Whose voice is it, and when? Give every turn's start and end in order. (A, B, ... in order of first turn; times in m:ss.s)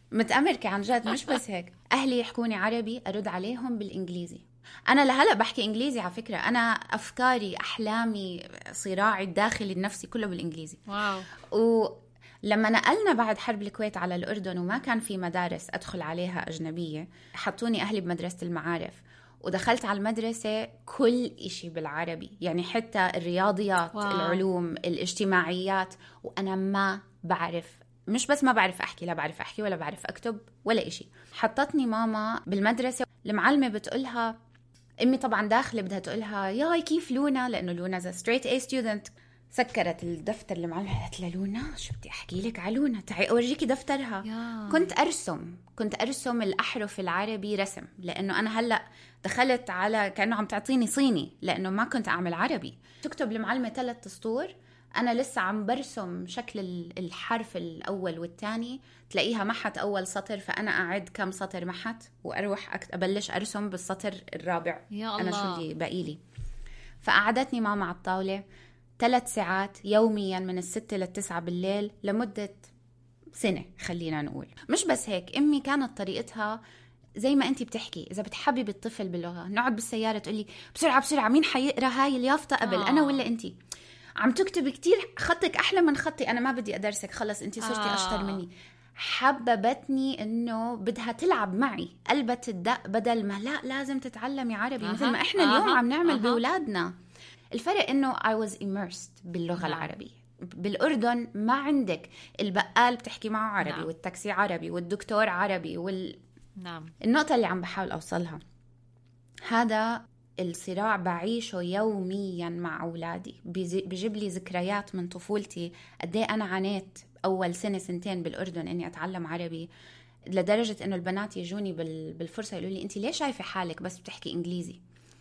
0:00.1-0:10.8 A
0:10.9-0:11.3 B
0:11.4-0:34.4 A
0:23.9-0:24.4 B
0:35.0-1:06.2 A
0:44.2-0:44.9 B
1:04.9-1:05.6 B
1:07.0-1:08.4 A
1:09.0-1:12.7 A
1:13.4-1:16.6 A
1:17.2-1:23.6 A
1:22.6-1:23.2 B
1:24.2-1:36.9 A
1:27.6-1:28.4 B
1:34.8-1:36.4 B
1:37.5-1:46.2 A
1:39.6-1:39.9 B
1:43.6-1:43.9 B
1:46.6-1:46.9 B
1:47.0-1:48.4 A
1:49.5-1:59.7 A
2:00.3-2:04.8 A